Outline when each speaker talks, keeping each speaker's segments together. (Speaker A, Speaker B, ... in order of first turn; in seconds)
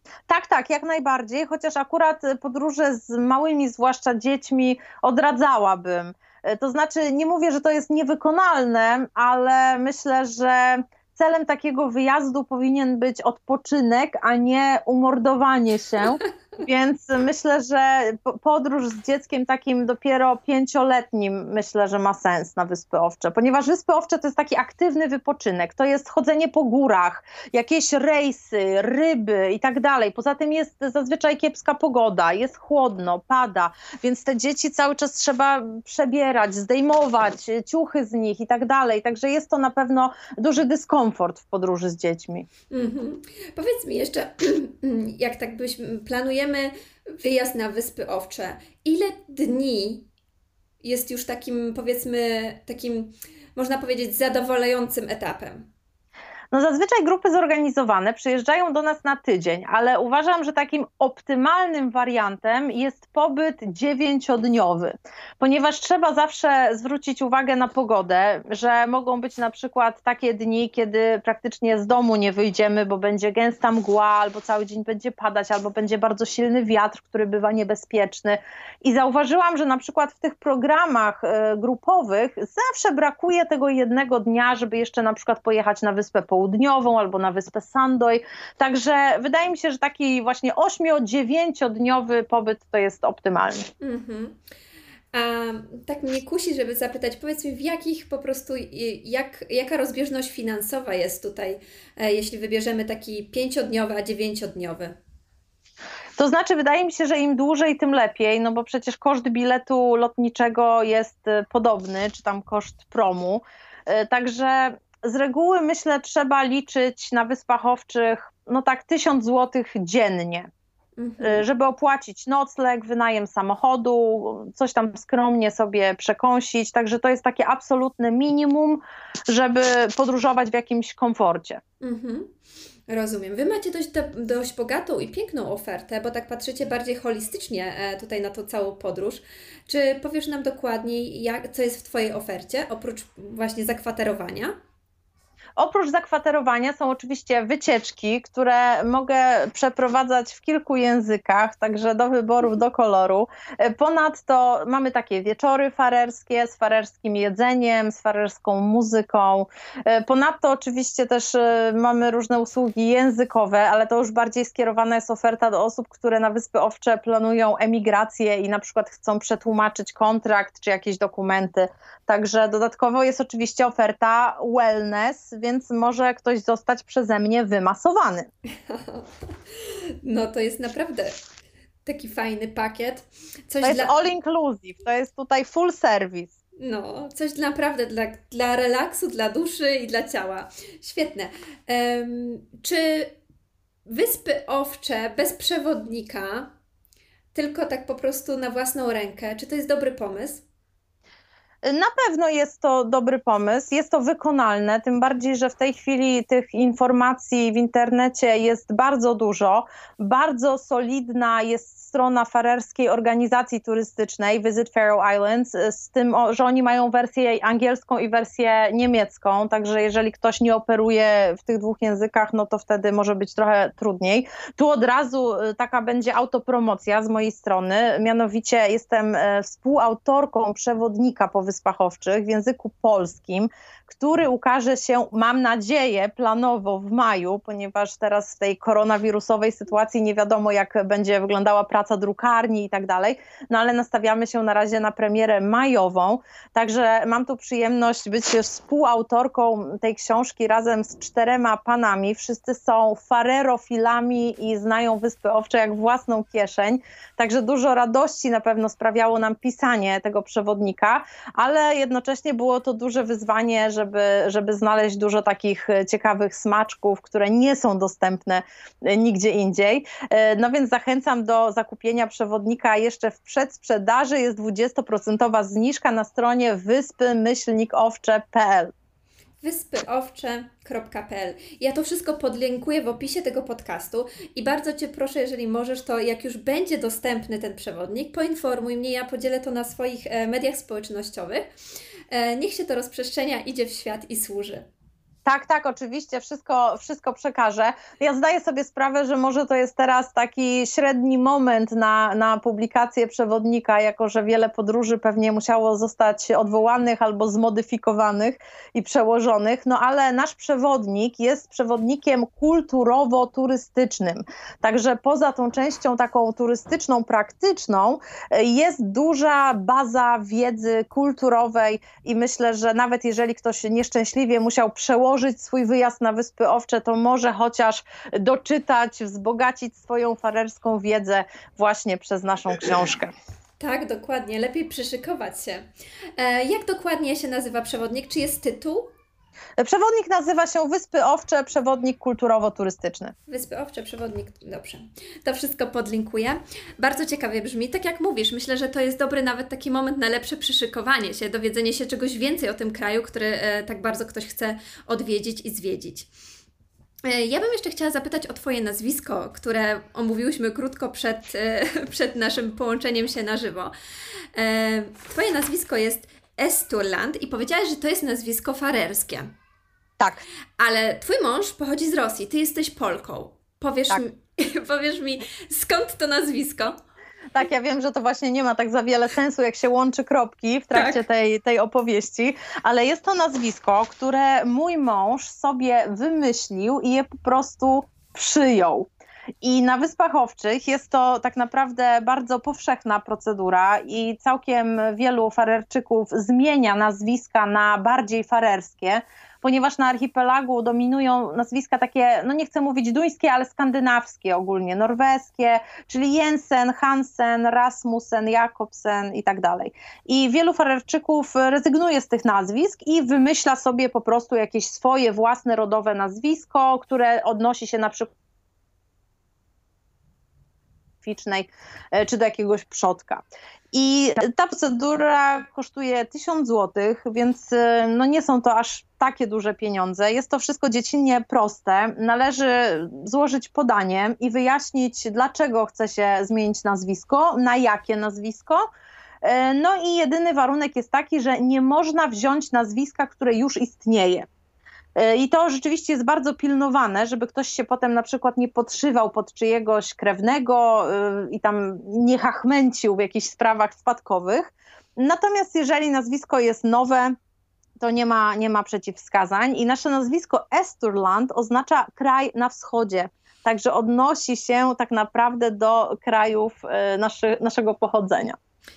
Speaker A: 0.3-42.5, 56.5-93.7, 106.2-120.5, 121.2-131.6, 145.6-178.3, 183.6-186.4, 201.6-278.7, 295.2-333.1, 339.6-343.1, 370.0-370.2, 377.3-388.9, 389.4-418.1, 421.0-438.6, 439.2-444.3, 444.9-457.1, 457.8-468.4
Speaker B: 42.7-50.1, 50.8-55.7, 93.8-94.4, 95.1-104.9, 121.0-121.4, 131.8-132.3, 132.9-144.5, 178.7-179.1, 179.6-181.2, 181.8-183.9, 186.6-193.1, 193.8-196.5, 197.3-200.4, 279.4-291.5, 292.1-294.7, 333.6-335.6, 336.2-338.9, 343.3-356.1, 357.0-363.7, 364.3-369.3, 370.6-376.8, 380.7-381.0